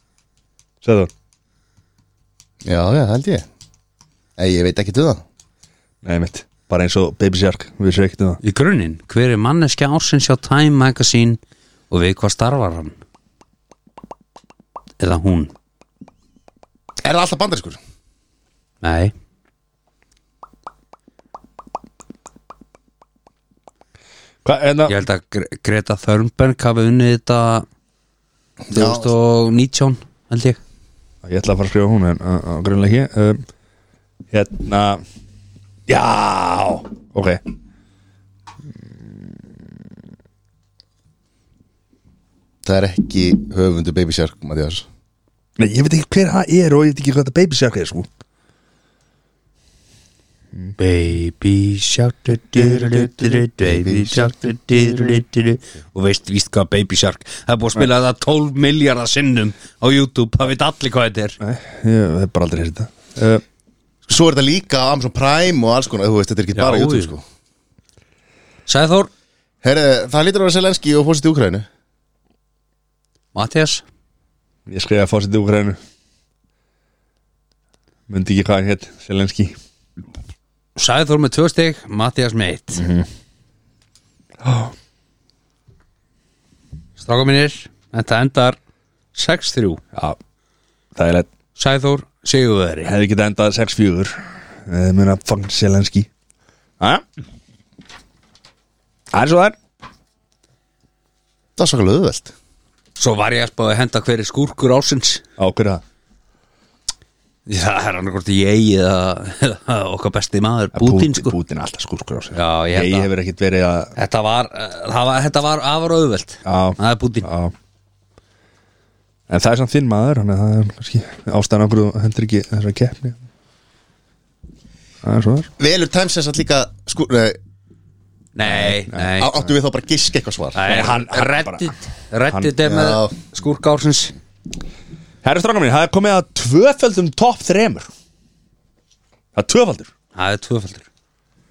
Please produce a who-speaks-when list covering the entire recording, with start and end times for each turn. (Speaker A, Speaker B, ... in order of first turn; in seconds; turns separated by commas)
Speaker A: 0.8-1.1, Speaker B: 2.6-3.4, Speaker B: 4.4-5.2, Speaker A: 6.0-8.4, Speaker C: 8.4-12.9, Speaker C: 15.0-15.5, Speaker B: 17.0-17.8, Speaker C: 18.8-19.1, Speaker A: 24.4-24.9, Speaker C: 24.9-27.6, Speaker B: 28.6-29.1, Speaker C: 28.7-30.6, Speaker A: 31.2-33.4, Speaker A: 34.3-35.0, Speaker A: 35.9-37.4, Speaker B: 42.6-44.9, Speaker A: 45.6-48.1, Speaker C: 50.8-61.4, Speaker B: 53.7-54.3, Speaker A: 61.4-63.4, Speaker B: 64.1-67.2, Speaker C: 66.5-67.1, Speaker C: 68.7-69.1, Speaker B: 69.6-71.7, Speaker C: 73.3-73.8, Speaker A: 74.7-75.8, Speaker A: 78.1-79.5, Speaker C: 80.8-82.8, Speaker A: 82.8-83.1, Speaker A: 84.4-84.7, Speaker C: 87.0-88.6, Speaker C: 89.1-89.8, Speaker A: 90.9-91.3, Speaker C: 91.5-92.9, Speaker A: 92.8-96.1, Speaker A: 99.1-99.5, Speaker B: 101.6-102.3, Speaker C: 103.0-105.2, Speaker A: 105.4-105.8, Speaker C: 107.5-111.3, Speaker A: 110.7-113.9, Speaker C: 112.3-113.1, Speaker C: 114.0-117.3, Speaker A: 116.4-117.5, Speaker A: 119.3-123.2, Speaker A: 125.0-125.5, Speaker B: 125.6-127.4, Speaker C: 128.3-129.3, Speaker A: 128.4-129.1, Speaker B: 129.2-130.6, Speaker C: 130.5-134.1, Speaker A: 130.7-131.7, Speaker B: 132.6-133.2, Speaker A: 135.2-137.9, Speaker A: 139.3-139.9, Speaker C: 140.1-140.9